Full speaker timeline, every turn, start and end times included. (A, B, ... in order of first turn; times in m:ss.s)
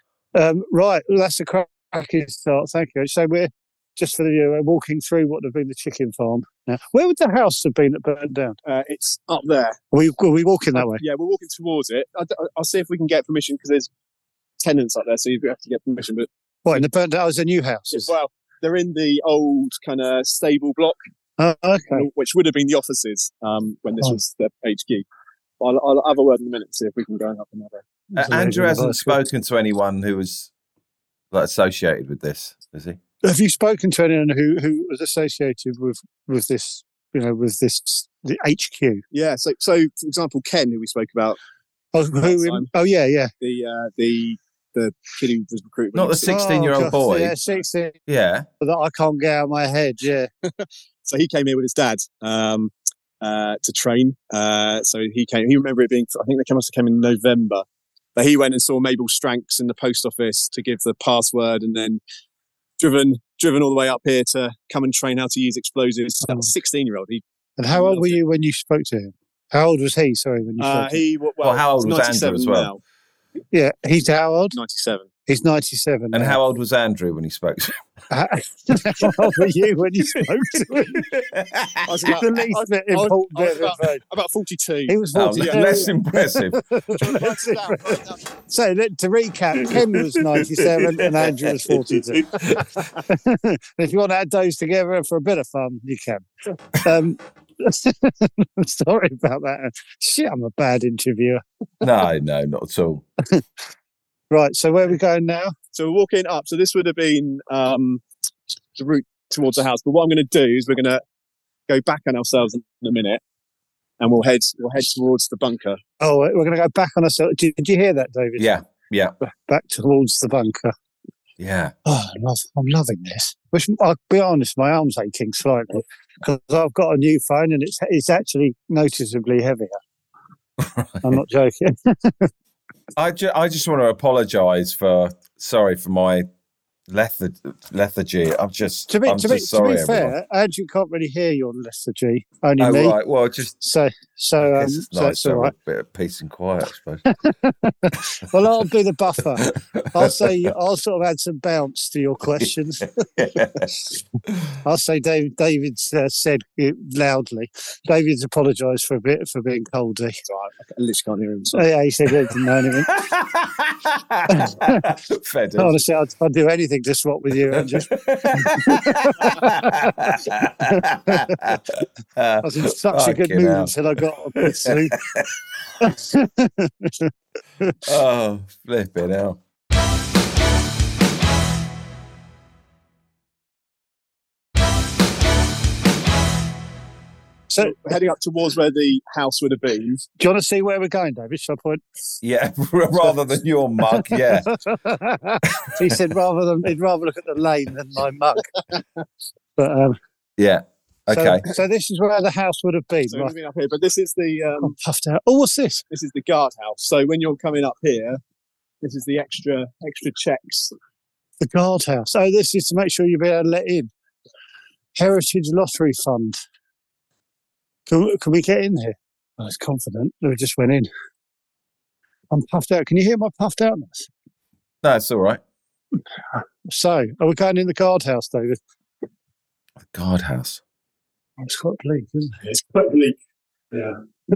0:00.3-0:08.6 A
0:08.7-0:09.8 B
0:09.9-0:11.0 A
0:10.8-0:13.9 B
0:14.6-0:16.8 B
0:16.7-0:18.1 A
0:17.9-0:21.0 B
0:21.4-0:22.1 A
0:21.9-0:25.0 B
0:25.6-0:27.8 B
0:28.1-0:29.2 A
0:28.2-0:30.5 C
0:31.3-0:33.0 C
0:33.2-0:39.0 A
0:39.1-0:41.4 B
0:41.9-0:43.3 A
0:42.2-0:42.7 B
0:43.4-0:46.9 B
0:45.9-0:47.4 C
0:46.3-0:48.0 A
0:48.1-0:48.5 C
0:48.6-0:50.3 A
0:50.5-0:57.6 B
0:58.2-1:02.0 B
1:02.8-1:08.2 B
1:07.6-1:11.0 A
1:10.6-1:12.8 B
1:11.4-1:12.7 C
1:13.5-1:14.6 A
1:14.5-1:15.1 B
1:15.3-1:16.4 A
1:16.1-1:17.8 C
1:18.1-1:21.1 A
1:20.9-1:22.1 C
1:21.8-1:25.9 B
1:22.1-1:24.0 A
1:24.9-1:32.3 A
1:25.1-1:26.6 C
1:26.9-1:28.2 B
1:30.6-1:32.8 C
1:33.1-1:41.4 A
1:41.8-1:43.0 C
1:44.3-1:45.5 A
1:45.7-1:48.0 B
1:48.8-1:51.0 B
1:51.7-1:53.2 B
1:54.0-1:55.8 B
1:56.0-1:58.6 A
1:58.4-1:59.2 C
1:59.2-2:00.8 A
2:01.4-2:01.7 C
2:01.9-2:09.8 A
2:10.6-2:11.2 C
2:11.0-2:12.3 A
2:13.0-2:16.3 C
2:16.9-2:20.1 C
2:18.9-2:23.0 A
2:22.6-2:23.6 C
2:23.6-2:25.5 A
2:24.4-2:27.0 C
2:27.1-2:32.9 A
2:29.4-2:30.5 C
2:33.2-2:33.7 C
2:34.6-2:40.2 A
2:40.3-2:41.6 B
2:41.5-2:42.9 A
2:42.8-2:45.8 C
2:44.3-2:44.8 A
2:45.6-2:49.9 A
2:47.5-2:55.3 C
2:50.7-2:51.4 A
2:52.4-2:55.0 A
2:55.8-2:57.8 A
2:57.8-2:59.4 C
3:07.5-3:07.8 A
3:07.6-3:10.0 B
3:10.2-3:11.8 A
3:12.2-3:14.5 C
3:14.0-3:18.6 A
3:15.7-3:15.9 C
3:19.6-3:20.0 A
3:20.4-3:21.4 C
3:21.1-3:23.3 A
3:23.1-3:24.8 B
3:24.6-3:25.8 A
3:25.9-3:28.2 B
3:28.8-3:30.7 B
3:31.4-3:33.9 A
3:35.0-3:36.4 A
3:37.9-3:40.9 A
3:42.3-3:44.1 A
3:44.8-3:45.4 C
3:46.4-3:48.6 A
3:49.9-3:50.6 C
3:51.4-3:52.4 A
3:52.4-3:53.2 B
3:53.7-3:54.0 B